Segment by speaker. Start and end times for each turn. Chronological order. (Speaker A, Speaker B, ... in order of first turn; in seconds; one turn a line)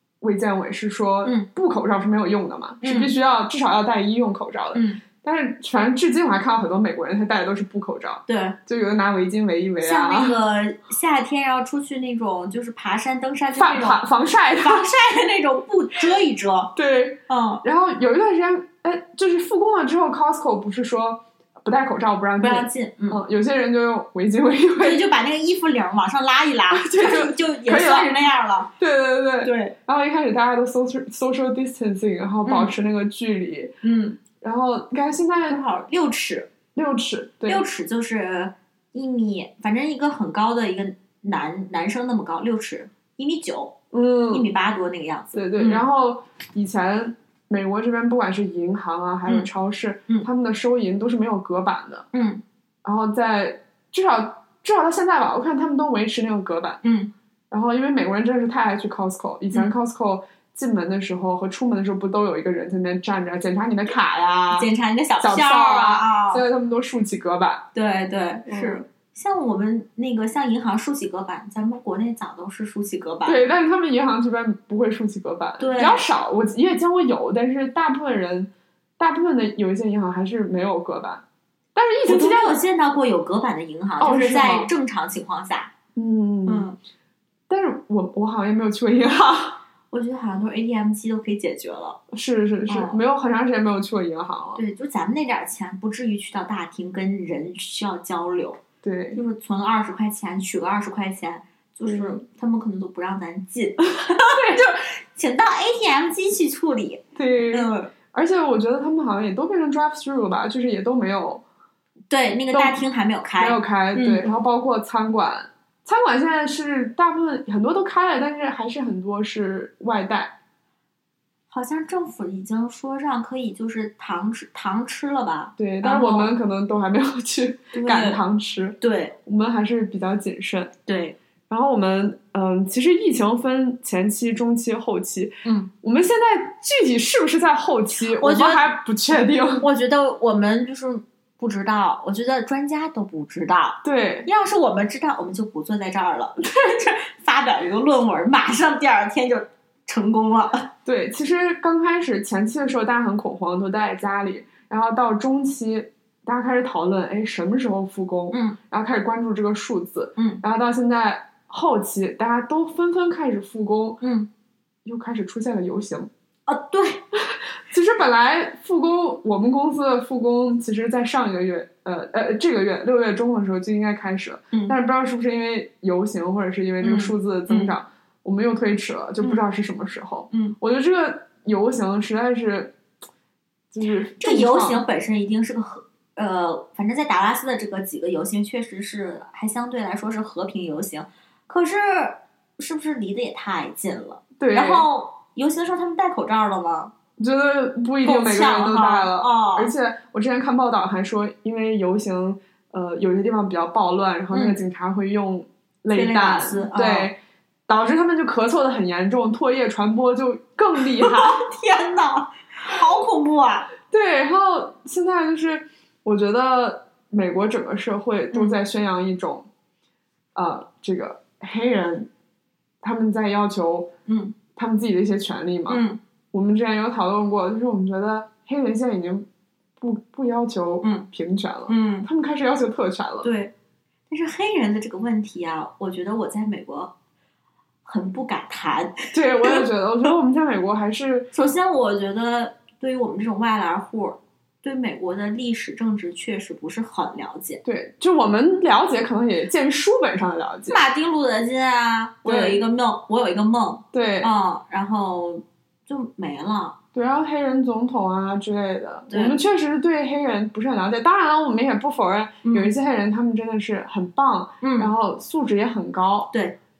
Speaker A: 0.2-10.4
Speaker B: 2.8-3.1
Speaker B: 4.7-5.0
Speaker B: 8.3-8.6
Speaker B: 9.8-14.0
Speaker A: 13.6-14.9
Speaker B: 14.6-16.7
Speaker A: 16.8-25.0
Speaker B: 17.3-17.6
Speaker B: 22.4-23.2
Speaker B: 24.8-28.7
Speaker A: 26.7-28.2
Speaker A: 28.8-33.7
Speaker B: 29.4-29.7
Speaker B: 32.4-32.7
Speaker B: 33.8-34.2
Speaker A: 34.4-35.6
Speaker B: 35.5-36.5
Speaker A: 36.7-37.6
Speaker B: 37.5-43.8
Speaker A: 43.9-44.5
Speaker B: 44.3-45.8
Speaker A: 45.3-52.1
Speaker B: 52.1-52.4
Speaker A: 52.8-56.8
Speaker B: 56.8-57.1
Speaker A: 57.5-64.7
Speaker B: 64.5-66.4
Speaker A: 65.2-67.7
Speaker B: 67.7-73.4
Speaker A: 68.5-68.8
Speaker A: 73.2-81.2
Speaker B: 75.6-76.0
Speaker A: 81.7-82.6
Speaker B: 82.0-85.7
Speaker A: 84.0-84.7
Speaker A: 85.9-86.7
Speaker B: 86.5-86.8
Speaker A: 87.5-89.6
Speaker B: 89.9-92.0
Speaker A: 92.1-94.6
Speaker B: 92.7-93.0
Speaker B: 94.5-98.6
Speaker A: 98.8-99.2
Speaker B: 99.1-107.9
Speaker A: 101.8-102.2
Speaker A: 104.1-104.6
Speaker A: 107.1-111.4
Speaker B: 112.1-114.2
Speaker A: 112.5-112.8
Speaker A: 113.4-120.3
Speaker B: 121.5-126.3
Speaker A: 125.6-130.7
Speaker B: 127.7-128.2
Speaker B: 128.8-129.1
Speaker B: 130.9-131.2
Speaker A: 131.5-139.7
Speaker B: 135.4-135.7
Speaker B: 138.0-138.7
Speaker B: 139.6-150.7
Speaker A: 143.8-144.3
Speaker A: 150.8-164.0
Speaker B: 158.3-158.6
Speaker B: 164.0-164.3
Speaker A: 164.8-166.1
Speaker B: 166.5-167.0
Speaker A: 167.1-182.8
Speaker B: 176.8-177.7
Speaker B: 180.3-180.6
Speaker A: 183.7-184.8
Speaker B: 184.2-196.9
Speaker A: 194.4-194.8
Speaker A: 197.2-211.4
Speaker B: 198.0-199.7
Speaker B: 204.3-204.6
Speaker B: 205.9-207.1
Speaker B: 211.0-213.7
Speaker A: 213.9-219.5
Speaker B: 218.3-218.6
Speaker A: 220.3-222.1
Speaker A: 222.8-223.9
Speaker B: 224.1-224.3
Speaker A: 224.6-229.2
Speaker B: 225.7-226.0
Speaker A: 229.8-233.3
Speaker B: 231.7-232.1
Speaker B: 233.2-233.5
Speaker B: 234.1-236.9
Speaker B: 237.8-239.7
Speaker A: 239.1-241.3
Speaker B: 241.3-247.6
Speaker A: 247.6-250.8
Speaker B: 250.7-256.8
Speaker A: 252.2-252.6
Speaker A: 253.9-254.3
Speaker A: 256.9-266.3
Speaker B: 259.1-259.4
Speaker B: 262.4-262.7
Speaker B: 264.6-264.9
Speaker B: 266.3-266.6